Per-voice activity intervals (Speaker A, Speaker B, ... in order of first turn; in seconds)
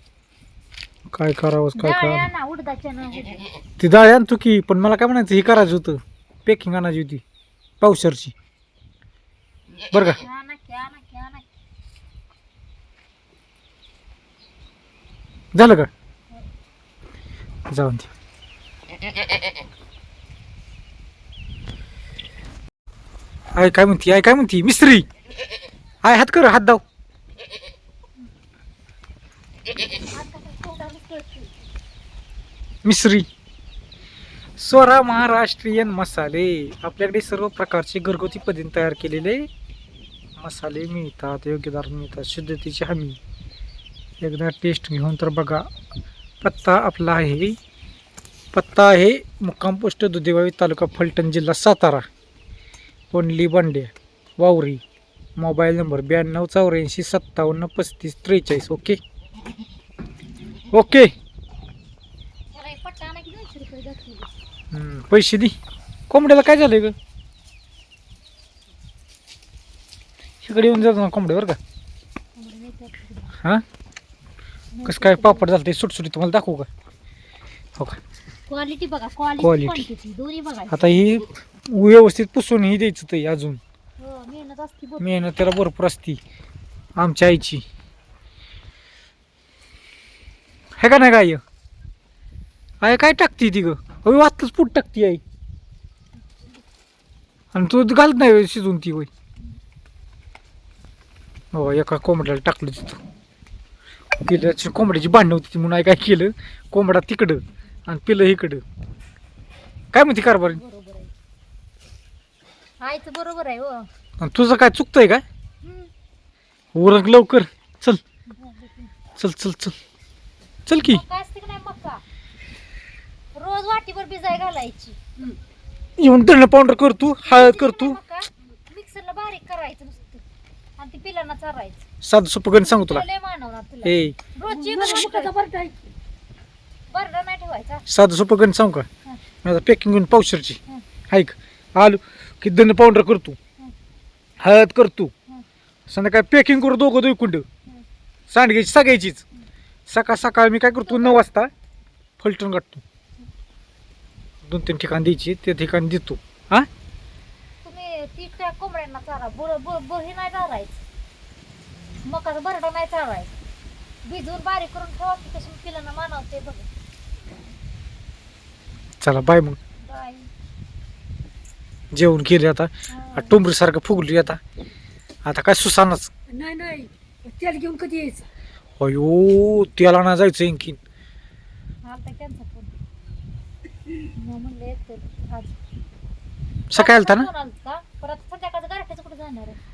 Speaker A: 1.1-2.2, 3.8-7.2, 7.8-8.3, 9.9-10.2, 15.5-15.9, 17.7-18.1, 23.6-25.1, 26.0-26.8, 32.8-33.3, 34.6-39.5, 40.4-43.2, 44.2-45.7, 46.4-47.6, 48.5-52.0, 53.1-54.8, 55.4-59.0, 60.7-61.1, 64.7-65.6, 66.1-67.0, 70.4-71.6, 74.9-76.7, 79.4-79.9, 80.7-83.6, 85.0-86.2, 87.0-87.7, 90.8-91.4, 92.8-95.2, 97.5-99.1, 101.5-103.0, 104.2-108.6, 109.9-110.6, 114.2-115.2, 116.8-118.0, 119.2-119.8, 120.7-121.0, 126.0-128.0, 132.0-133.1, 133.8-134.2, 137.9-138.9, 139.4-143.4, 144.4-145.1, 145.9-147.5, 148.3-149.2, 149.9-151.5, 152.2-152.8, 154.4-156.7, 169.0-169.6, 171.9-174.4, 175.2-176.1, 178.8-180.8, 186.7-187.3
Speaker B: 1.8-3.5, 10.2-11.4, 29.7-31.6, 62.5-64.3, 72.4-73.4, 74.7-75.5, 78.5-81.1, 84.0-85.5, 110.2-111.1, 112.8-113.9, 115.6-115.9, 118.3-118.9, 120.8-122.0, 123.3-125.0, 127.2-130.2, 130.8-131.9, 132.6-135.4, 136.9-137.9, 150.8-151.2, 157.6-160.8, 162.1-163.3, 164.0-166.7, 169.8-170.3, 172.9-173.4, 181.8-182.8, 184.2-185.6, 186.7-189.6
Speaker C: 134.5-135.8, 176.3-178.3